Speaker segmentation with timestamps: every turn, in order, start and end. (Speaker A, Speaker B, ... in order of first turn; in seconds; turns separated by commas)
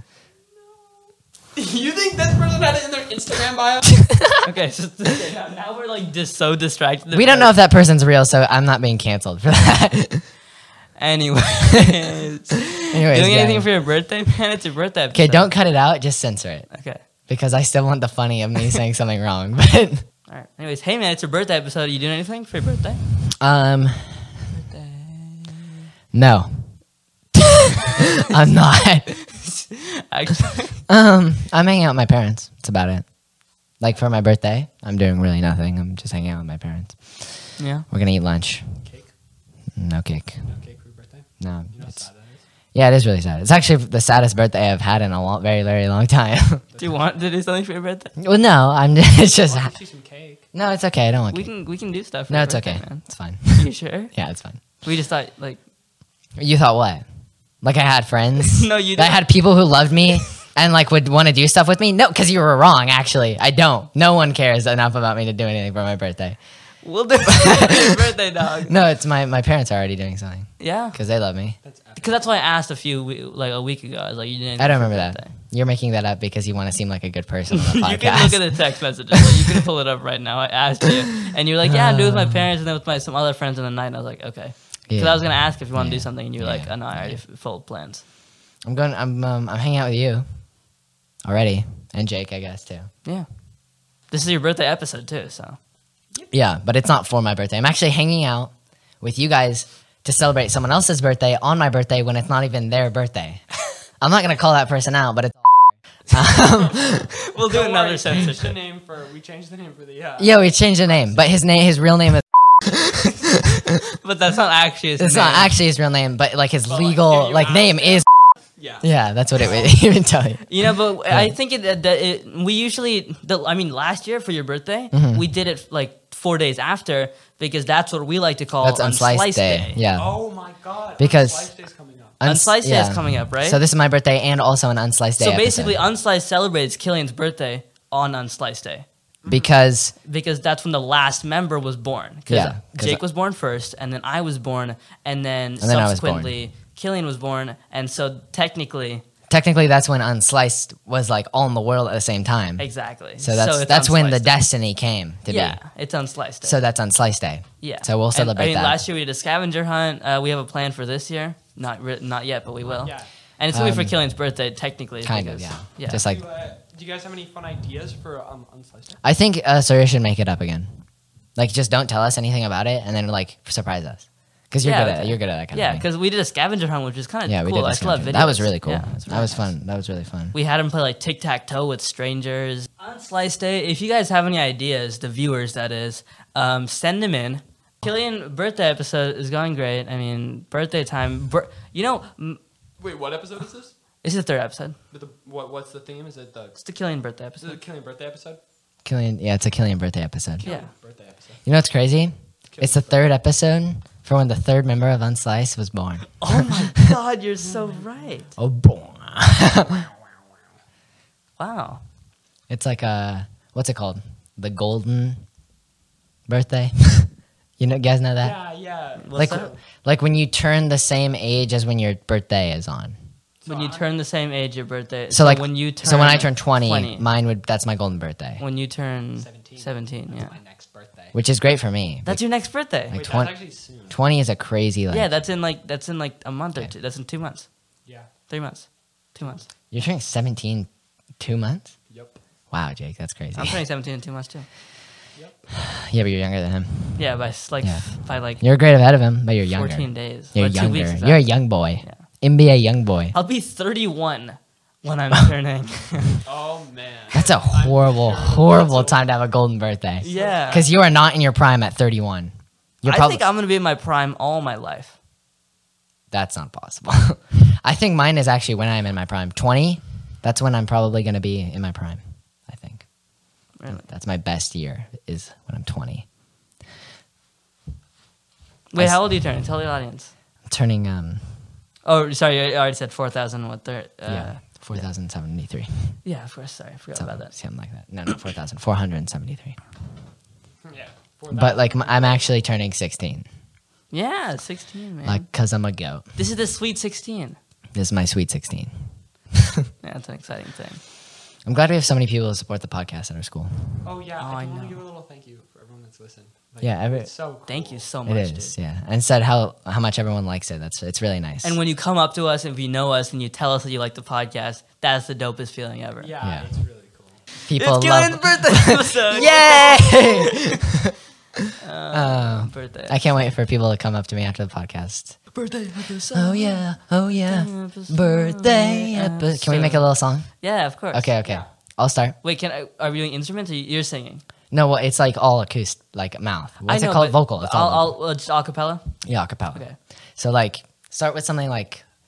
Speaker A: 0.6-4.1, Speaker B: 4.1-4.3, Speaker C: 4.4-7.5, Speaker A: 5.2-5.6, Speaker B: 7.1-10.2, Speaker C: 10.9-15.5, Speaker B: 12.9-13.7, Speaker B: 15.1-16.7, Speaker C: 16.7-17.0, Speaker B: 17.3-20.0, Speaker C: 20.3-23.0, Speaker B: 23.4-24.3, Speaker C: 24.5-25.7, Speaker B: 26.1-26.8, Speaker B: 27.3-29.2, Speaker C: 29.2-30.8, Speaker B: 30.9-33.1, Speaker B: 33.8-38.6, Speaker C: 37.6-37.8, Speaker A: 38.8-39.1, Speaker B: 39.8-40.4, Speaker A: 40.4-42.4, Speaker B: 41.4-42.0, Speaker B: 42.7-46.6, Speaker A: 46.7-47.3, Speaker C: 46.8-48.1, Speaker B: 48.2-49.7, Speaker A: 49.4-50.5, Speaker B: 50.5-51.5, Speaker C: 51.3-54.1, Speaker B: 52.3-54.6, Speaker C: 54.8-55.6, Speaker B: 56.4-57.0, Speaker B: 57.6-66.4, Speaker C: 58.5-59.2, Speaker C: 66.8-68.7, Speaker B: 67.3-67.8, Speaker B: 68.7-71.6, Speaker C: 70.6-71.0, Speaker A: 71.6-72.3, Speaker C: 72.0-75.3, Speaker B: 74.6-78.8, Speaker C: 77.5-88.0, Speaker B: 81.6-82.5, Speaker B: 84.9-87.2, Speaker B: 88.6-90.2, Speaker B: 91.2-92.9, Speaker C: 94.1-95.6, Speaker B: 96.3-103.4, Speaker B: 104.0-107.1, Speaker A: 106.6-106.8, Speaker C: 107.2-108.5, Speaker A: 107.4-111.2, Speaker B: 110.2-113.2, Speaker C: 113.8-115.5, Speaker B: 115.0-118.1, Speaker A: 116.7-118.9, Speaker B: 118.8-120.5, Speaker A: 119.4-119.7, Speaker C: 120.5-129.8, Speaker B: 124.9-125.2, Speaker B: 128.6-130.1, Speaker A: 129.9-132.2, Speaker B: 131.0-131.5, Speaker B: 132.2-135.8, Speaker C: 132.2-133.6, Speaker C: 135.2-138.8, Speaker A: 139.2-139.5, Speaker B: 139.3-139.9, Speaker C: 140.0-149.0, Speaker B: 142.3-143.0, Speaker B: 145.6-146.3, Speaker B: 149.3-155.6, Speaker C: 152.6-154.4, Speaker C: 155.3-156.6, Speaker B: 156.4-158.8, Speaker C: 157.6-166.0, Speaker A: 162.8-163.1, Speaker B: 163.5-163.9, Speaker B: 165.0-166.2, Speaker A: 165.9-169.0, Speaker B: 169.0-170.7, Speaker B: 171.3-175.8, Speaker C: 174.6-179.5, Speaker B: 177.3-180.3, Speaker C: 180.3-192.4, Speaker A: 192.8-193.7, Speaker C: 194.0-194.8, Speaker A: 194.9-196.7, Speaker C: 196.6-197.6, Speaker A: 197.4-198.4, Speaker B: 198.8-200.4, Speaker A: 200.4-201.4, Speaker C: 200.4-200.7, Speaker B: 201.4-206.5, Speaker A: 202.5-203.0, Speaker C: 206.2-208.3, Speaker A: 207.4-208.0, Speaker B: 208.4-209.9, Speaker C: 211.4-211.8, Speaker B: 212.5-215.2, Speaker B: 216.3-218.3, Speaker A: 218.2-219.6, Speaker C: 219.0-219.5, Speaker B: 219.1-222.9, Speaker A: 223.4-223.9, Speaker C: 223.4-227.0, Speaker B: 225.1-228.4, Speaker C: 228.4-230.3, Speaker A: 229.2-231.1, Speaker B: 231.1-232.2, Speaker C: 232.0-233.0, Speaker A: 232.9-234.0, Speaker B: 232.9-233.4, Speaker B: 233.9-235.1, Speaker C: 234.9-237.5, Speaker C: 238.3-239.4, Speaker B: 239.7-240.7, Speaker B: 241.2-241.7, Speaker A: 241.9-242.2, Speaker B: 242.5-243.6, Speaker C: 243.3-244.5, Speaker B: 245.6-247.0, Speaker C: 247.0-248.4, Speaker B: 247.6-253.1, Speaker C: 249.5-252.0, Speaker C: 253.1-256.2, Speaker A: 256.2-259.1, Speaker B: 257.1-263.2, Speaker C: 260.0-260.6, Speaker A: 260.0-260.7, Speaker C: 262.9-264.9, Speaker B: 266.1-272.9, Speaker C: 273.6-273.8, Speaker B: 273.7-276.1, Speaker C: 278.7-280.1, Speaker B: 278.8-279.0, Speaker B: 280.4-281.2, Speaker C: 281.8-284.4, Speaker B: 284.1-285.9, Speaker C: 286.0-287.3, Speaker B: 286.9-289.6, Speaker A: 290.6-292.3, Speaker B: 291.3-293.3, Speaker C: 293.9-295.2, Speaker B: 295.0-296.0, Speaker C: 296.1-297.4, Speaker B: 297.7-298.7, Speaker B: 299.3-299.6, Speaker C: 299.8-300.8, Speaker B: 301.4-303.8, Speaker A: 303.8-307.9, Speaker C: 304.2-304.8, Speaker B: 306.6-307.1, Speaker C: 307.5-308.5, Speaker B: 308.1-311.6, Speaker C: 311.4-316.1, Speaker A: 316.0-317.2, Speaker B: 316.2-316.5, Speaker B: 317.5-321.4, Speaker C: 317.6-320.5, Speaker C: 321.6-323.0, Speaker B: 321.9-325.3, Speaker C: 325.3-326.6, Speaker B: 326.1-330.3, Speaker C: 327.2-329.9, Speaker C: 330.4-331.2, Speaker B: 330.9-332.1, Speaker C: 332.2-334.2, Speaker B: 334.5-337.9, Speaker C: 336.6-338.9, Speaker B: 339.0-339.6, Speaker B: 340.2-341.8